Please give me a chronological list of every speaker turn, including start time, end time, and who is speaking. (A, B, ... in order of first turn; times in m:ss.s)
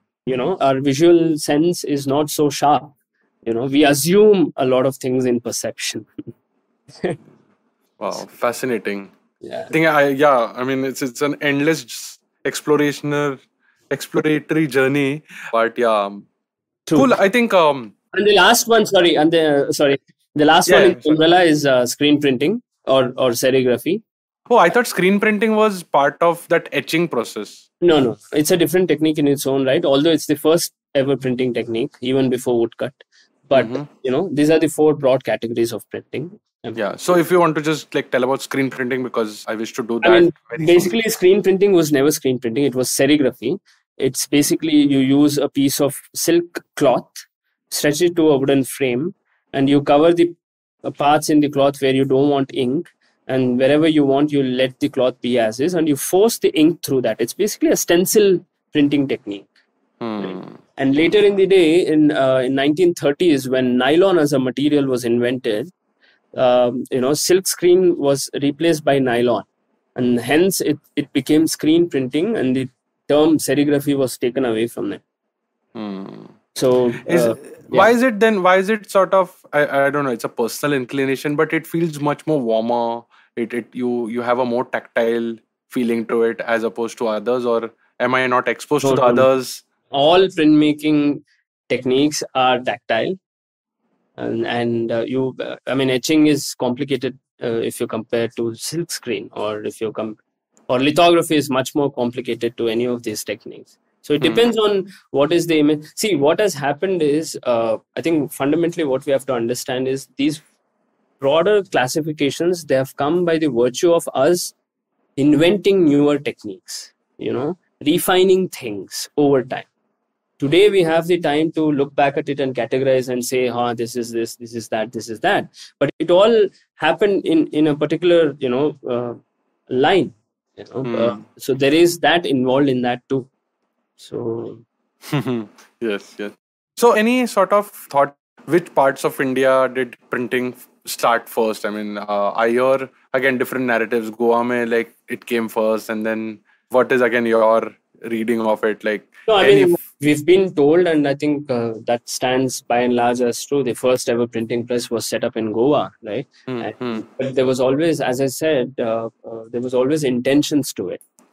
0:00.2-0:02.9 A
0:03.4-0:06.1 A
0:08.0-0:09.1 B
0:09.4-0:09.7 A
0:09.7-0:13.4 B
0:13.9-0:16.2 B
0:16.9-0:17.1 A
0:16.9-0:17.9 B
0:18.1-0:24.0 A
0:20.7-0:21.2 B
0:24.5-0:27.6 B
0:27.8-0:36.9 A
0:33.5-0:33.8 B
0:36.8-0:40.9 B
0:40.0-0:59.5 A
1:00.0-1:00.6 B
1:00.2-1:05.7 A
1:06.3-1:15.0 A
1:15.7-1:16.4 B
1:16.5-1:17.9 A
1:17.1-1:29.6 B
1:28.8-1:29.3 A
1:29.9-1:33.2 A
1:34.2-1:40.2 A
1:40.7-1:50.4 A
1:44.2-1:44.5 B
1:51.2-1:54.5 A
1:55.2-1:59.7 A
2:00.4-2:09.2 A
2:09.7-2:13.3 A
2:10.8-2:11.2 B
2:14.0-2:14.6 A
2:15.0-2:29.8 B
2:29.3-2:41.0 A
2:36.5-2:37.0 B